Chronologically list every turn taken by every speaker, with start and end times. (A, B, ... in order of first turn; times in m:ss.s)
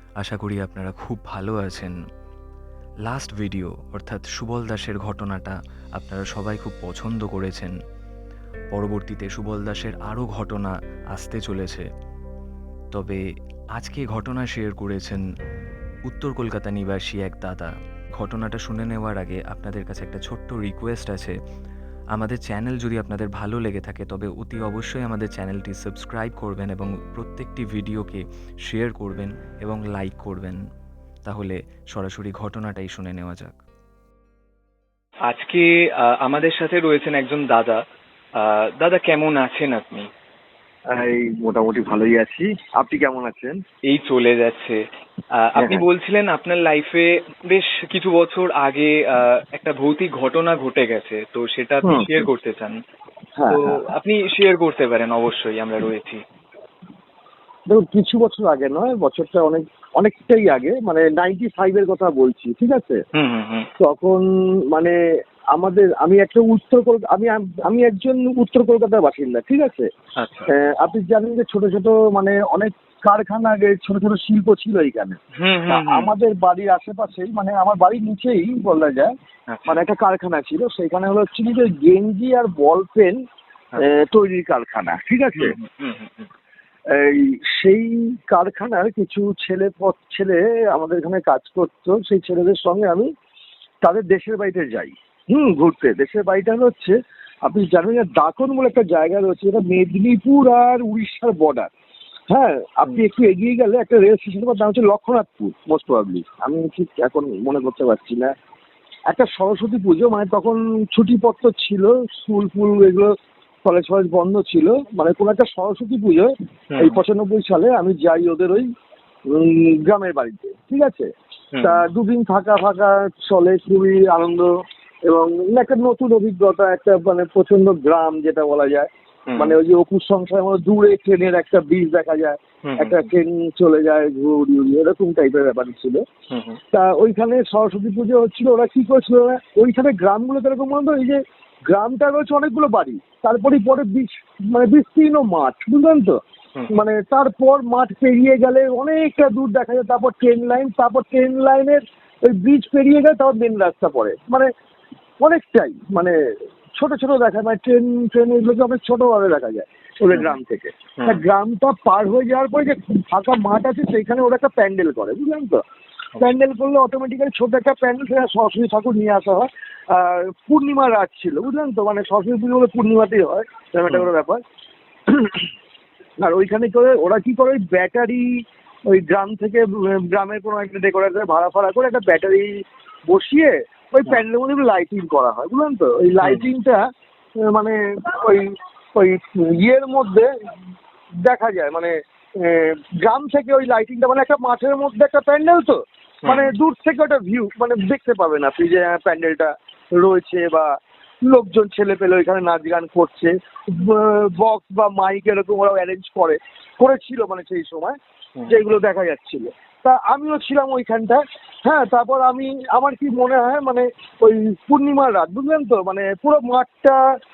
0:00.2-0:02.0 A
0:03.0-0:07.8 A
0:08.7-0:11.9 A
0:12.9-0:13.2 A
0:13.8-0:15.2 A
0:16.1-0:21.4 A
0:22.2-0:30.6 A
0:31.2-0:33.6 A
0:35.3-0:37.8 B
0:38.4-0:40.1 B
0:40.9-0:43.6 C
0:43.9-0:44.8 B
0:45.4-0:52.8 B
0:45.6-0:45.8 C
0:51.8-0:52.3 C
0:53.4-0:53.8 C
0:53.5-0:56.2 B
0:57.7-1:03.0 C
1:03.1-1:03.7 B
1:03.8-1:05.0 C
1:05.5-1:09.9 C
1:10.2-1:10.5 B
1:10.5-1:19.1 C
1:15.4-1:16.1 B
1:19.5-1:19.8 B
1:19.7-1:23.2 C
1:23.8-1:25.6 C
1:25.4-1:26.3 B
1:26.9-1:33.1 C
1:33.8-1:41.7 C
1:42.3-1:48.3 C
1:49.1-1:53.1 C
1:53.6-1:58.7 C
1:56.7-1:57.0 B
1:59.3-2:01.1 C
2:01.5-2:01.8 B
2:01.6-2:04.5 C
2:05.1-2:16.0 C
2:09.3-2:09.6 B
2:12.6-2:13.1 B
2:16.3-2:16.6 B
2:16.7-2:26.2 C
2:26.7-2:34.5 C
2:35.2-2:36.1 C
2:36.8-2:45.6 C
2:46.2-2:54.4 C
2:55.1-2:55.5 C
2:56.2-2:58.3 C
2:58.9-3:02.5 C
3:03.1-3:06.8 C
3:06.2-3:06.5 B
3:07.5-3:10.3 C
3:11.2-3:20.7 C
3:16.3-3:16.5 B
3:21.2-3:28.0 C
3:28.5-3:37.0 C